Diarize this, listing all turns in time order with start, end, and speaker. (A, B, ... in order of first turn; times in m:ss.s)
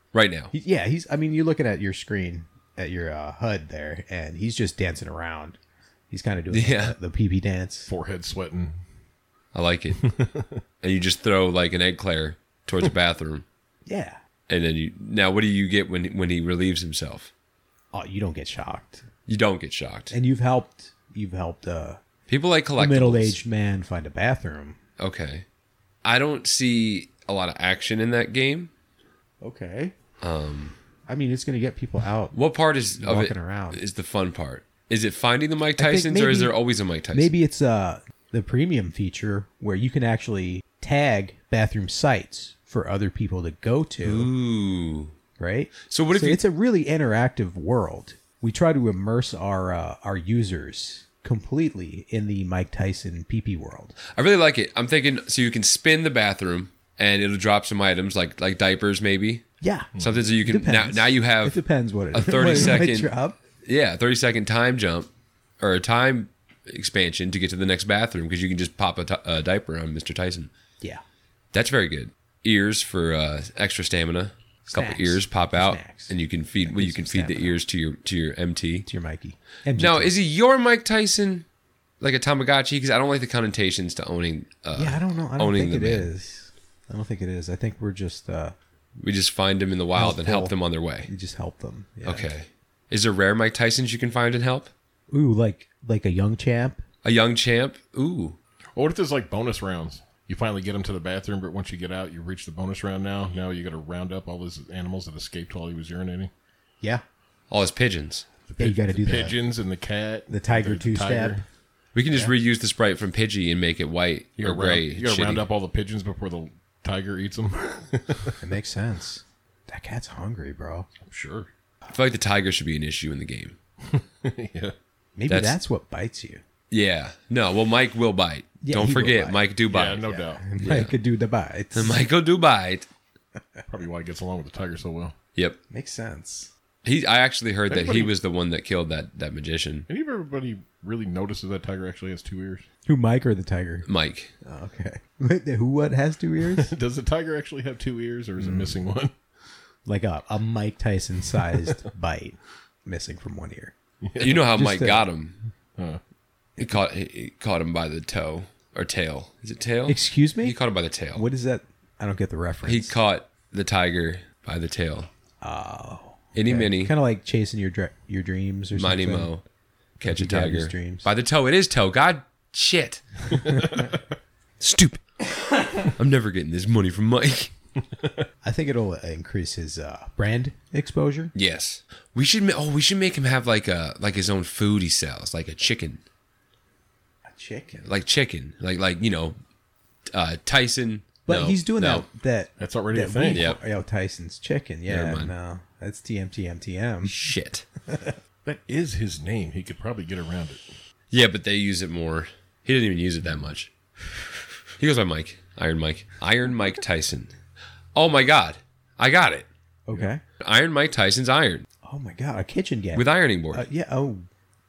0:00.1-0:00.5 A
0:00.5-0:05.6 B
0:06.1-0:07.9 B
0:06.5-0:07.0 A
0:07.9-0:08.8 C
0:09.5-0:10.1 A
0:10.0-0:10.6 C
0:10.8-0:13.4 A
0:13.9-0:14.2 B
0:14.5-0:17.3 A
0:17.9-0:19.0 B
0:19.3-0:20.1 A
0:20.1-0:22.0 B
0:22.3-0:23.4 A
0:22.8-0:24.8 B
0:25.0-0:25.4 A
0:26.0-0:28.7 A
0:29.4-0:30.0 B
0:30.2-0:30.8 A
0:31.1-0:32.4 B
0:32.3-0:37.3 A
0:33.0-0:33.8 B
0:35.8-0:36.6 B
0:37.1-0:44.3 B
0:44.0-0:45.1 A
0:45.4-0:54.0 B
0:45.8-0:46.4 A
0:54.1-0:59.4 A
0:59.6-0:59.9 B
1:00.0-1:00.2 C
1:00.0-1:01.6 A
1:00.4-1:03.4 B
1:02.1-1:03.1 A
1:03.6-1:05.1 A
1:05.6-1:10.5 A
1:11.5-1:18.9 A
1:14.7-1:17.6 B
1:18.9-1:20.2 B
1:19.8-1:21.4 A
1:22.0-1:26.1 A
1:24.8-1:28.6 B
1:29.0-1:31.1 A
1:30.0-1:32.3 B
1:32.0-1:34.7 A
1:35.1-1:36.8 B
1:37.0-1:38.4 A
1:38.8-1:46.3 C
1:47.5-1:48.3 A
1:48.5-1:51.4 C
1:48.6-1:49.4 B
1:50.3-1:51.4 B
1:52.0-1:55.5 A
1:54.4-1:58.4 C
1:58.4-2:00.9 B
2:01.0-2:01.5 C
2:01.9-2:03.6 A
2:03.8-2:04.8 C
2:05.2-2:06.4 B
2:05.3-2:05.6 A
2:06.7-2:10.0 A
2:08.6-2:09.5 B
2:09.7-2:10.4 C
2:10.0-2:12.0 B
2:10.6-2:10.9 A
2:11.7-2:12.9 A
2:13.7-2:15.2 C
2:15.7-2:16.5 B
2:16.8-2:19.9 A
2:17.7-2:18.1 C
2:19.9-2:22.6 C
2:22.9-2:23.9 B
2:23.9-2:24.3 A
2:24.4-2:26.7 B
2:26.5-2:29.1 C
2:28.4-2:28.8 B
2:29.9-2:33.7 B
2:34.0-2:34.4 C
2:34.2-2:35.4 A
2:34.5-2:35.1 B
2:36.6-2:41.2 A
2:39.9-2:40.6 B
2:41.1-2:43.0 B
2:42.6-2:45.1 A
2:45.4-2:49.3 B
2:46.4-2:46.9 A
2:48.7-2:49.4 A
2:50.0-2:51.1 B
2:50.0-2:53.0 A
2:53.5-2:53.9 C
2:54.6-2:55.0 A
2:55.9-2:57.5 A
2:58.4-3:01.3 B
3:01.4-3:06.0 A
3:07.3-3:07.9 B
3:07.9-3:09.4 A
3:10.1-3:12.1 A
3:11.3-3:17.2 B
3:12.6-3:13.5 C
3:13.3-3:13.6 A
3:14.9-3:15.3 A
3:17.1-3:17.7 A
3:17.9-3:18.2 B
3:18.4-3:20.6 C
3:21.1-3:23.7 A
3:24.8-3:27.3 A
3:28.0-3:29.5 A
3:29.9-3:30.2 B
3:30.4-3:31.7 A
3:31.8-3:34.3 B
3:32.9-3:33.7 A